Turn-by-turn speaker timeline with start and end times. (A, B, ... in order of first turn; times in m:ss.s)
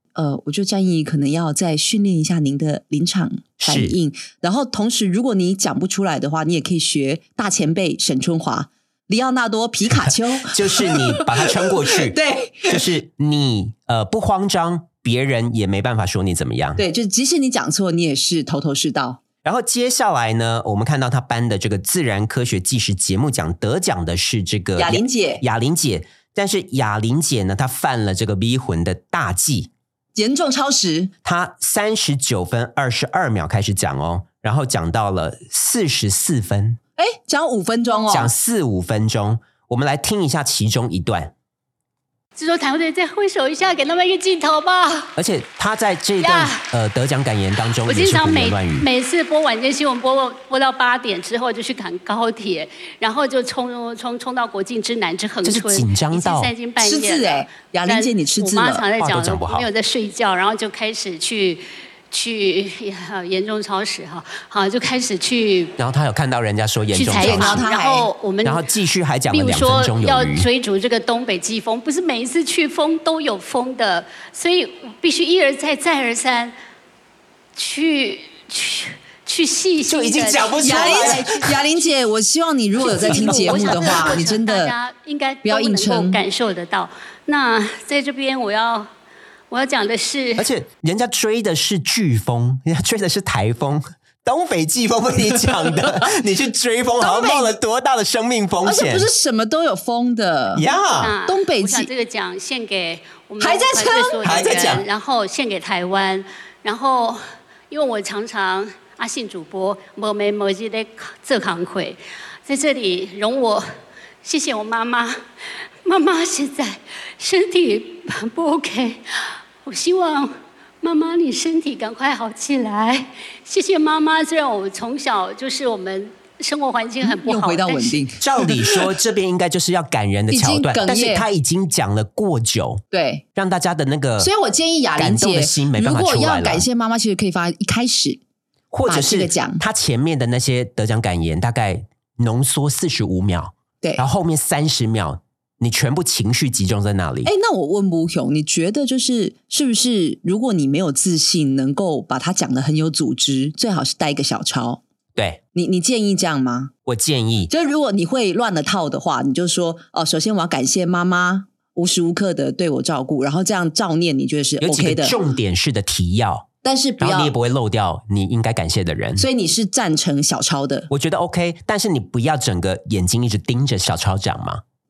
0:00.2-0:12.8 A
0:03.6-0:04.0 B
0:10.4-0:16.8 B
0:16.8-0:19.2 A
0:19.4-0:29.7 B
0:24.8-0:25.4 A
0:30.2-0:31.1 A
0:31.2-0:36.8 B
0:37.0-0:38.3 A
0:38.1-0:41.3 B
0:42.4-0:45.1 C
0:45.2-0:48.9 B
0:46.2-0:46.6 C
0:47.8-1:05.7 C
0:55.4-0:56.5 B
0:56.8-0:58.9 A
0:59.0-0:59.7 B
1:05.8-1:07.7 B
1:06.9-1:08.6 C
1:07.2-1:08.1 A
1:08.4-1:10.5 B
1:09.3-1:16.5 C
1:17.6-1:21.9 C
1:19.8-1:21.5 B
1:20.6-1:24.7 A
1:22.8-1:28.9 C
1:22.9-1:24.1 B
1:25.4-1:26.2 A
1:29.5-1:30.5 C
1:30.4-1:39.1 B
1:37.0-1:37.6 A
1:38.6-1:40.6 A
1:40.6-1:41.1 B
1:41.0-1:53.6 C
1:41.2-1:41.9 A
1:43.4-1:44.2 A
1:44.2-1:44.8 B
1:54.2-1:55.2 C
1:55.8-1:59.0 C
1:59.6-2:08.0 C
2:07.0-2:08.2 A
2:08.2-2:12.8 B
2:10.3-2:11.3 A
2:12.9-2:13.2 A
2:13.4-2:14.3 B
2:14.2-2:18.2 A
2:15.0-2:16.6 B
2:18.7-2:27.3 B
2:18.9-2:19.6 A
2:27.2-2:34.8 A
2:35.2-2:35.4 B
2:35.6-2:36.7 A
2:36.9-2:37.5 B
2:37.5-2:45.2 A
2:44.6-2:46.5 B
2:46.6-2:47.3 A
2:47.0-2:49.3 B
2:49.2-2:50.9 A
2:50.9-2:54.6 B